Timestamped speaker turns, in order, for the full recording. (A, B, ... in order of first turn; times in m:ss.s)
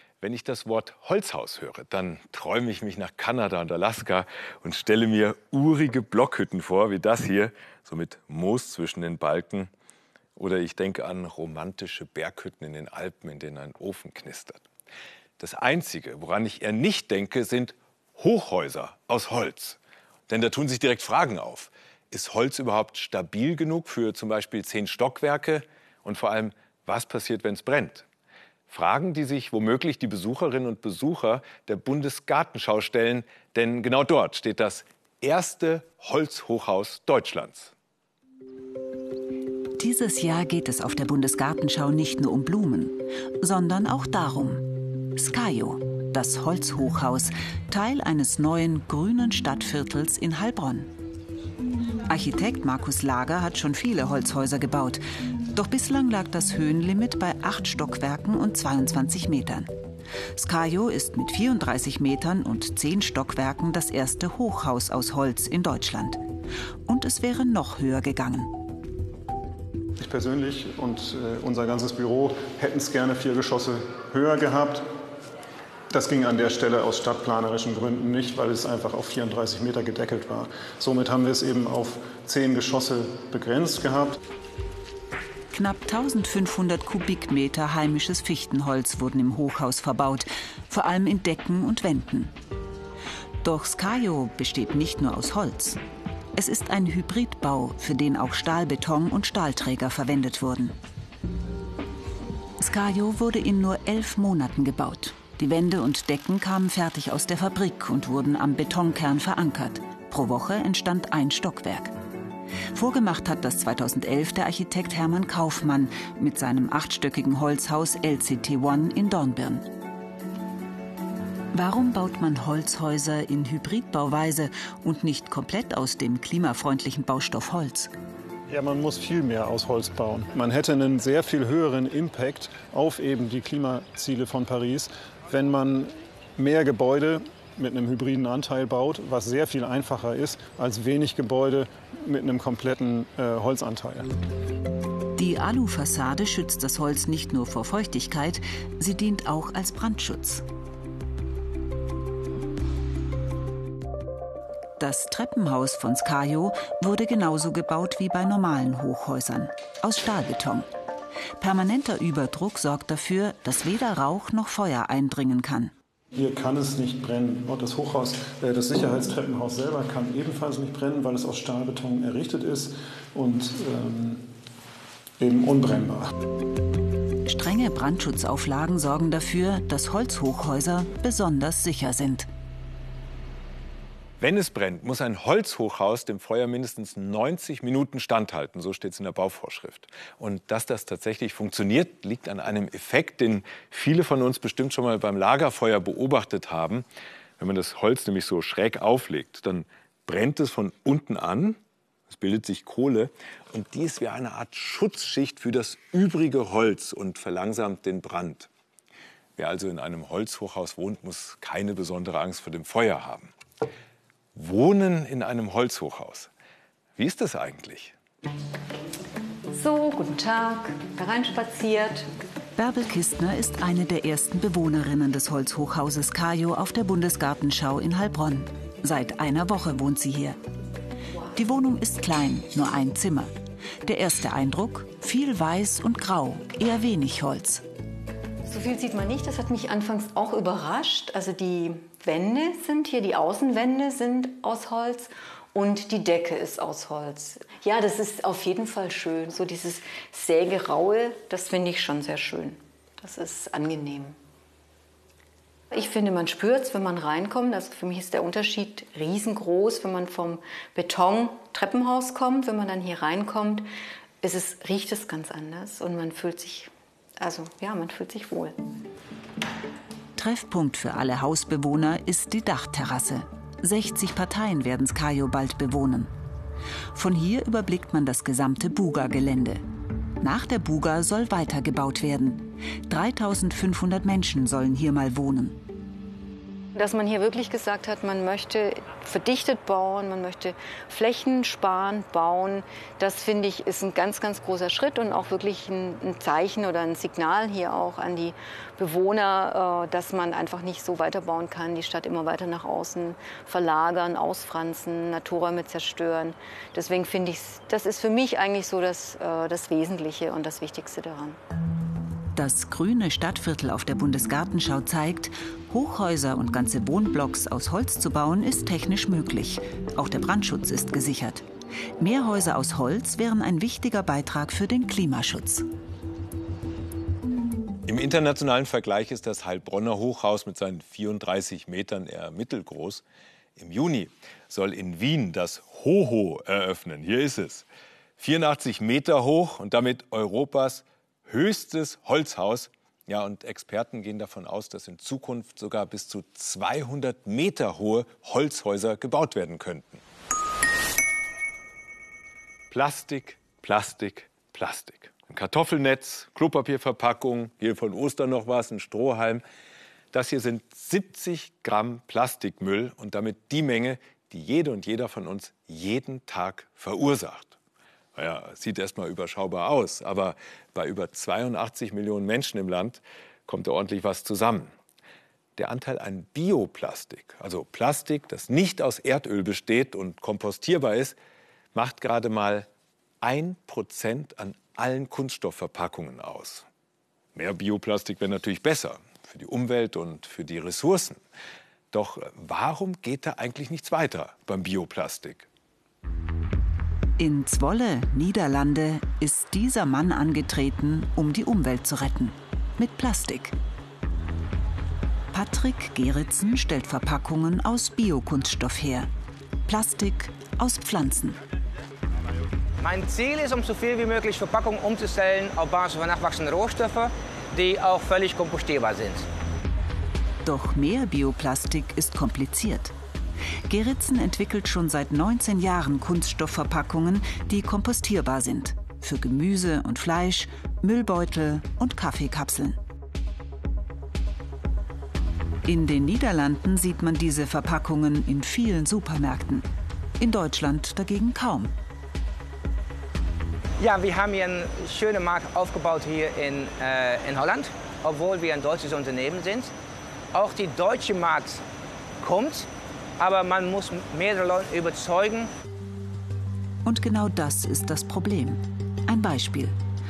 0:00.2-0:09.7 A
0:10.4-0:14.6 A
0:15.4-0:19.8 A
0:20.3-0:28.1 A
0:28.7-0:37.7 A
0:39.8-0:50.9 B
0:52.1-0:59.7 B
1:00.4-1:06.2 B
1:06.9-1:08.6 B
1:10.0-1:14.9 C
1:15.9-1:24.2 C
1:25.5-1:32.3 B
1:33.4-1:35.8 B
1:36.4-1:40.8 B
1:42.6-1:52.0 B
1:52.7-1:59.7 B
2:01.5-2:07.9 B
2:08.5-2:24.2 C
2:25.2-2:30.4 B
2:34.8-2:40.7 B
2:41.4-2:45.7 B
2:46.1-2:54.3 C
2:55.2-2:56.1 C
2:57.3-3:02.3 B
3:04.2-3:16.8 A
3:17.4-3:28.5 A
3:29.4-3:33.3 A
3:34.4-3:36.3 A
3:37.0-3:37.9 A
3:39.5-3:42.1 D
3:42.6-3:50.4 B
3:51.3-3:57.6 B
3:58.5-4:14.2 D
4:15.7-4:23.7 D
4:24.2-4:28.6 D
4:30.2-4:36.1 B
4:36.9-4:39.6 B
4:40.2-4:45.6 B
4:46.8-5:11.4 D
5:12.4-5:21.4 B
5:22.0-5:25.6 B
5:27.9-5:33.0 A
5:33.6-5:37.7 A
5:38.2-5:50.0 A
5:52.7-5:59.4 A
6:00.1-6:07.6 A
6:08.2-6:14.7 A
6:15.6-6:21.2 A
6:21.7-6:22.7 A
6:23.2-6:26.6 A
6:27.4-6:31.2 A
6:31.9-6:35.5 A
6:37.2-6:43.6 B
6:45.3-6:49.1 B
6:49.7-6:51.4 B
6:52.8-6:59.2 E
7:00.4-7:02.9 B
7:03.7-7:12.8 B
7:15.6-7:19.7 B
7:20.2-7:21.7 B
7:23.8-7:29.7 E
7:30.3-7:31.6 E
7:32.2-7:32.7 E
7:33.2-7:35.5 E
7:36.8-7:39.8 B